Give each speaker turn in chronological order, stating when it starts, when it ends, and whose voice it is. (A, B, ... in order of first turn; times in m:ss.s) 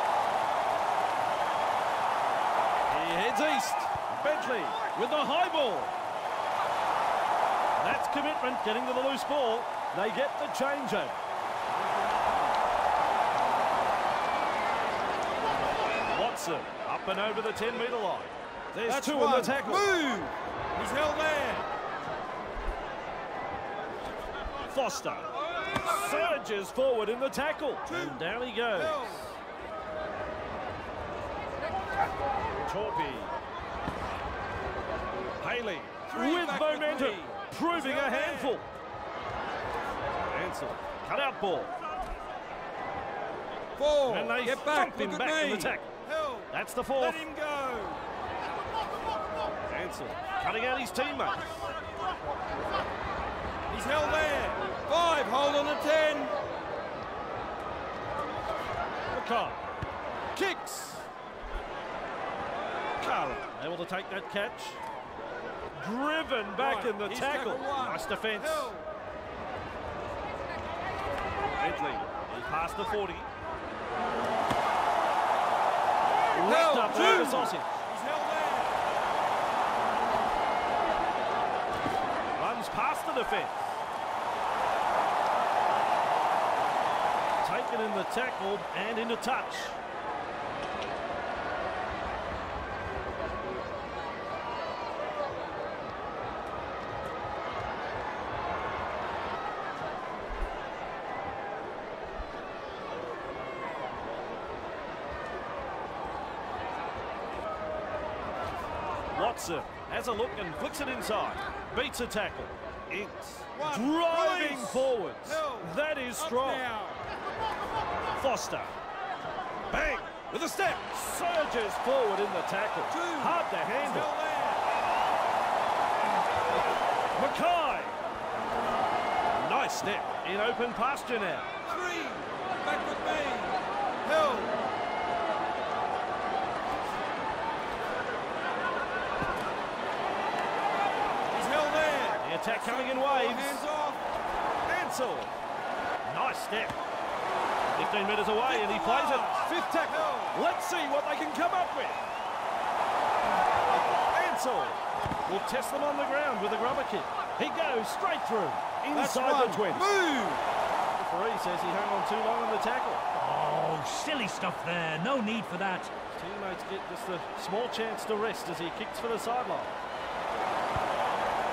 0:02.9-0:06.0 A
0:07.8-0:11.2 A
0:16.1-0:19.9 A
0:18.9-0:21.7 B
0:24.7-0:29.3 A
0:27.9-0:29.3 B
0:32.7-0:33.3 A
0:35.4-0:38.7 A
0:36.1-0:38.6 B
0:40.2-0:41.7 A
0:43.8-0:48.0 B
0:44.0-0:45.9 A
0:46.5-0:47.2 A
0:49.7-0:51.7 A
0:53.7-0:56.3 B
0:59.1-0:59.7 A
1:00.3-1:01.1 A
1:03.0-1:04.8 A
1:05.8-1:08.7 A
1:06.6-1:08.8 B
1:11.6-1:13.3 A
1:16.3-1:17.8 A
1:16.4-1:18.8 B
1:22.4-1:23.8 A
1:27.4-1:29.8 A
1:49.1-1:56.6 A
1:53.5-1:57.0 B
1:58.2-1:58.7 A
1:59.7-2:04.1 A
2:02.9-2:04.6 B
2:07.2-2:08.0 A
2:09.3-2:11.6 A
2:11.7-2:14.6 B
2:21.3-2:24.0 B
2:22.2-2:23.6 A
2:24.7-2:25.3 A
2:26.0-2:26.8 A
2:27.7-2:32.0 A
2:28.4-2:30.4 B
2:33.9-2:39.9 A
2:38.9-2:40.4 B
2:40.9-2:43.0 A
2:43.1-2:45.9 C
2:46.1-2:49.7 A